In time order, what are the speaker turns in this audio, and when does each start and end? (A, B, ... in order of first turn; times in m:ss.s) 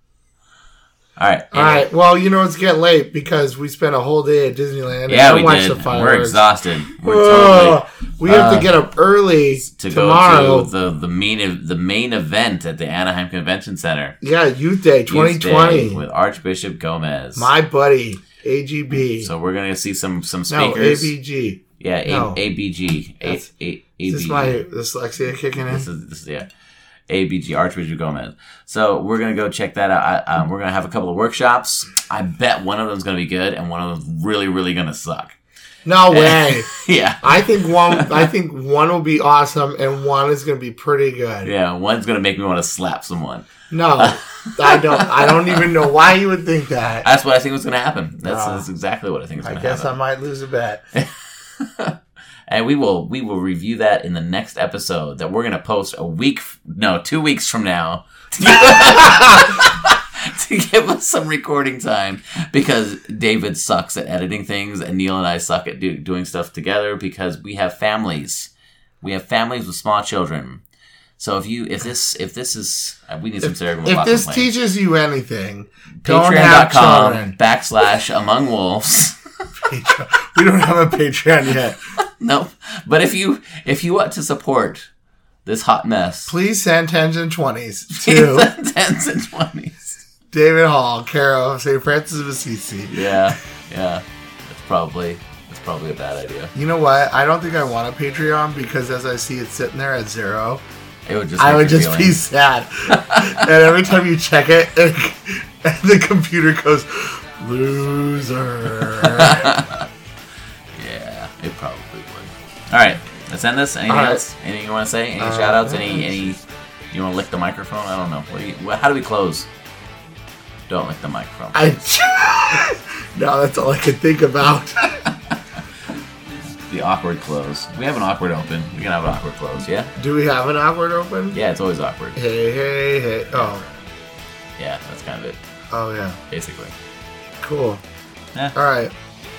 0:01.2-0:01.9 A
0:01.5-0:06.4 B
0:05.1-0:08.7 A
0:07.0-0:10.7 B
0:09.7-0:14.2 A
0:14.2-0:16.0 B
0:15.1-0:17.5 A
0:17.4-0:19.3 B
0:19.0-0:21.1 A
0:20.5-0:22.4 B
0:21.8-0:24.6 A
0:24.0-0:25.9 B
0:25.6-0:26.5 A
0:27.1-0:35.4 A
0:35.8-0:41.5 B
0:36.1-0:38.3 A
0:41.4-0:45.6 A
0:43.7-0:47.0 B
0:47.0-0:49.9 A
0:48.2-0:48.6 B
0:49.4-0:50.8 B
0:50.9-0:52.0 A
0:52.5-1:08.5 A
0:58.5-0:59.5 B
1:09.0-1:10.6 A
1:11.2-1:14.5 A
1:13.4-1:17.4 B
1:16.0-1:19.4 A
1:19.6-1:21.8 B
1:22.0-1:24.9 A
1:25.4-1:26.3 A
1:26.3-1:28.5 B
1:27.9-1:30.0 A
1:30.3-1:33.4 B
1:32.9-1:36.5 A
1:36.5-1:40.6 B
1:41.0-1:42.2 A
1:41.4-1:49.5 B
1:42.9-1:43.5 A
1:48.9-1:49.9 A
1:50.7-1:59.5 A
1:53.9-1:54.2 B
1:55.2-1:56.2 B
2:00.7-2:01.7 A
2:01.5-2:05.0 B
2:06.6-2:09.9 A
2:10.0-2:11.4 B
2:11.3-2:12.2 A
2:12.1-2:13.6 B
2:14.6-2:15.4 A
2:15.7-2:16.2 B
2:16.3-2:16.7 A
2:17.4-2:17.8 B
2:18.5-2:18.9 B